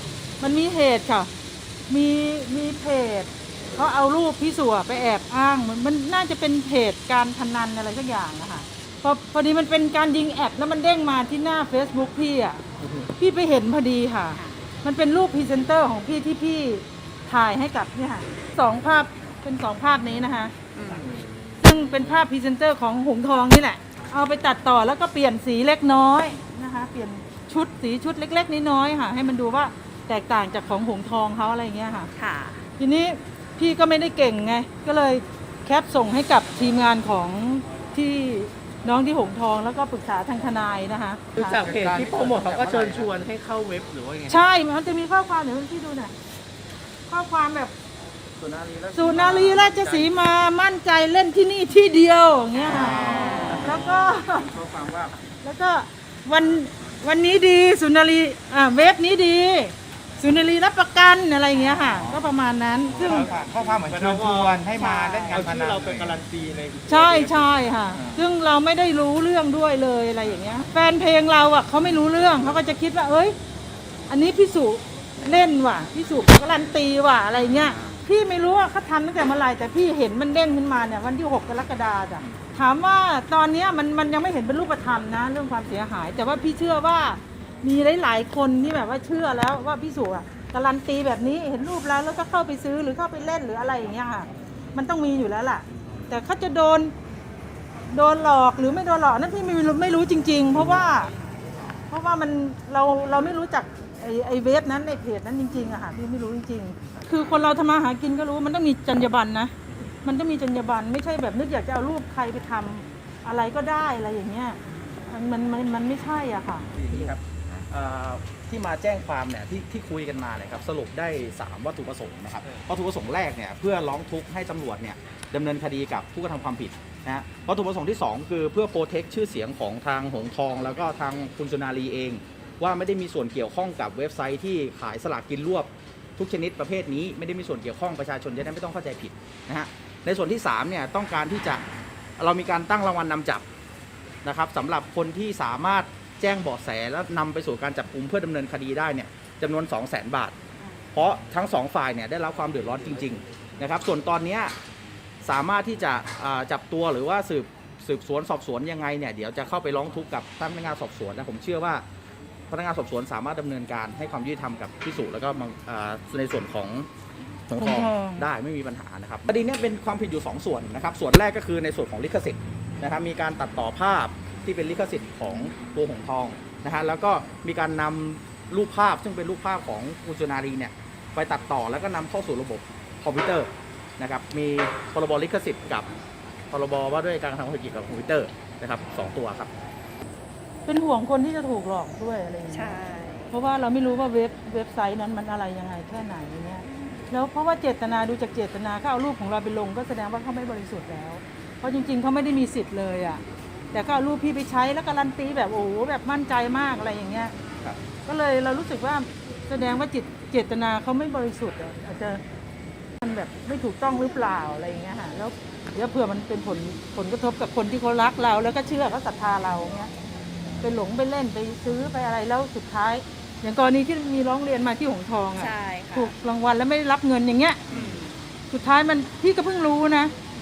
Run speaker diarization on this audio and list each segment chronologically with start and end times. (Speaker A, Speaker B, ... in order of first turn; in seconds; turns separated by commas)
Speaker A: 0.4-1.3, Speaker A: 1.9-12.6, Speaker A: 13.2-20.5, Speaker B: 14.3-14.6, Speaker B: 20.7-21.2, Speaker A: 21.6-32.1, Speaker B: 32.1-32.6, Speaker A: 32.8-41.8, Speaker C: 41.4-44.3, Speaker D: 41.4-43.2, Speaker A: 44.3-46.1, Speaker A: 47.1-47.7, Speaker D: 48.4-50.2, Speaker A: 48.9-54.5, Speaker B: 52.5-53.7, Speaker D: 52.6-55.1, Speaker A: 55.4-63.3, Speaker E: 63.0-66.2, Speaker D: 63.0-63.7, Speaker C: 63.9-67.3, Speaker B: 65.0-65.4, Speaker A: 66.8-73.3, Speaker A: 74.1-96.9, Speaker D: 77.5-77.9, Speaker A: 97.9-101.1, Speaker A: 101.9-109.5, Speaker A: 110.0-116.7, Speaker D: 116.7-141.6, Speaker D: 142.2-143.4, Speaker D: 144.2-150.3, Speaker D: 150.9-154.5, Speaker D: 155.2-161.8, Speaker D: 162.5-166.9, Speaker D: 167.5-185.9, Speaker A: 167.6-168.3, Speaker D: 186.5-189.5, Speaker A: 190.7-192.8, Speaker B: 192.5-193.3, Speaker A: 193.3-203.2, Speaker A: 203.7-207.3, Speaker A: 208.0-212.2, Speaker A: 213.0-219.9, Speaker A: 220.6-227.6, Speaker B: 225.3-226.1, Speaker D: 227.7-227.9, Speaker B: 227.7-228.1, Speaker A: 228.5-230.1